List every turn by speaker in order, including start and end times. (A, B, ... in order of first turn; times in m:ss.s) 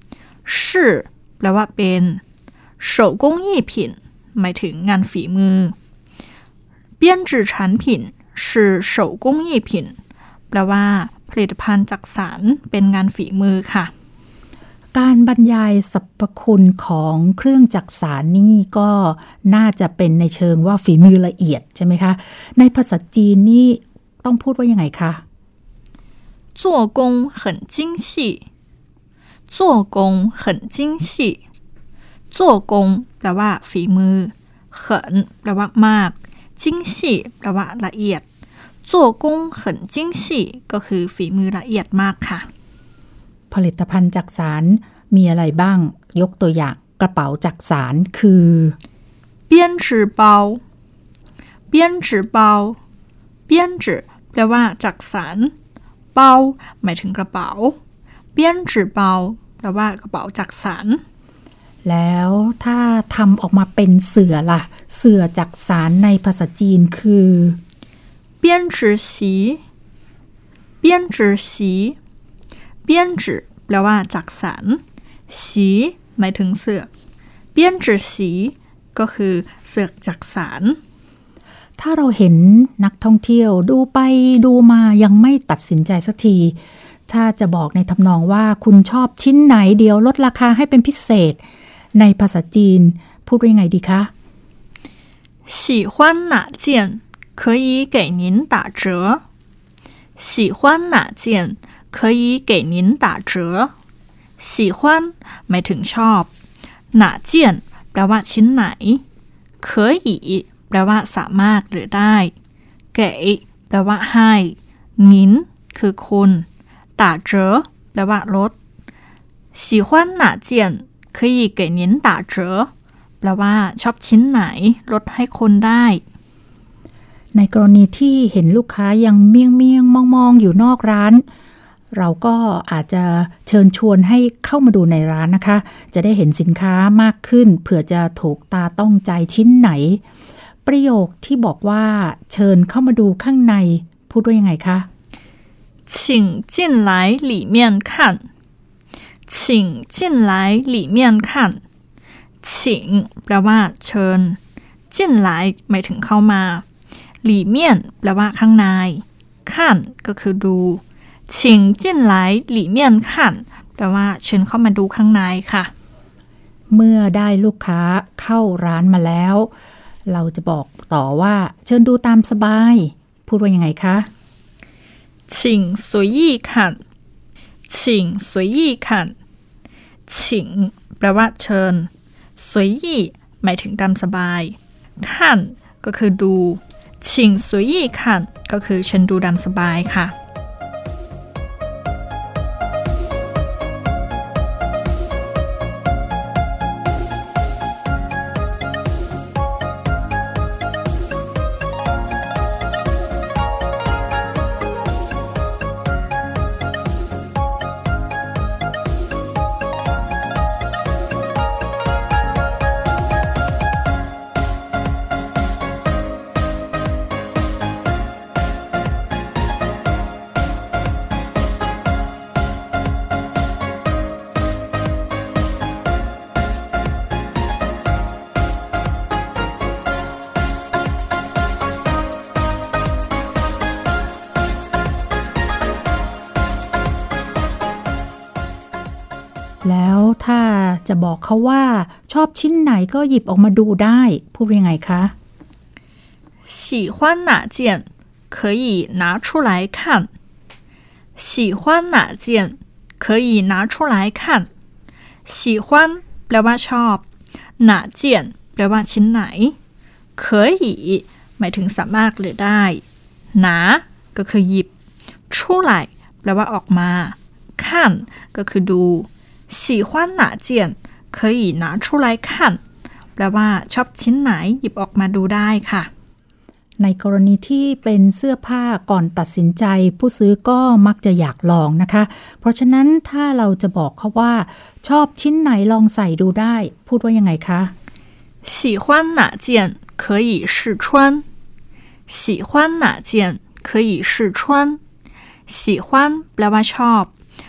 0:00.5-0:02.2 A
0:02.8-0:05.8 A
0:07.0-0:10.0 A
0:10.5-0:13.9 A
0:14.9-0:25.2 B
0:26.6-0:28.4 A
0:29.5-0:31.4 A
0:32.3-0:38.2 A
0:38.8-0:42.5 A
0:43.5-0:48.8 B
0:49.5-0:50.6 A
0:51.7-0:52.8 A
0:53.5-0:55.5 A
0:56.2-0:57.8 A
0:58.4-1:01.0 A
1:01.8-1:07.6 B
1:08.4-1:09.6 A
1:10.8-1:12.0 A
1:12.8-1:16.9 A
1:17.6-1:20.8 A
1:21.8-1:31.4 B
1:32.0-1:34.1 B
1:35.5-1:39.2 A
1:40.2-1:43.7 A
1:44.4-1:46.3 A
1:46.9-1:49.0 A
1:49.6-1:52.3 A
1:52.9-1:56.5 A
1:57.0-1:58.6 A
1:59.5-2:02.7 A
2:03.2-2:06.0 A
2:07.3-2:11.2 B
2:11.9-2:20.0 B
2:20.7-2:24.9 B
2:25.9-2:28.2 A
2:29.3-2:31.6 A
2:32.4-2:34.4 A
2:34.9-2:36.6 A
2:37.2-2:45.7 A
2:46.7-2:49.5 B
2:50.1-2:54.1 B
2:55.3-2:56.8 A
2:57.7-2:59.1 A
3:00.1-3:10.1 A
3:59.6-4:05.1 B
4:06.4-4:10.1 A
4:11.2-4:14.5 A
4:15.3-4:17.0 A
4:17.6-4:19.6 A
4:20.2-4:24.7 A
4:25.3-4:32.6 A
4:33.2-4:35.9 A
4:36.8-4:47.7 B
4:48.4-4:51.2 A
4:52.1-4:54.8 A
4:55.5-4:57.1 A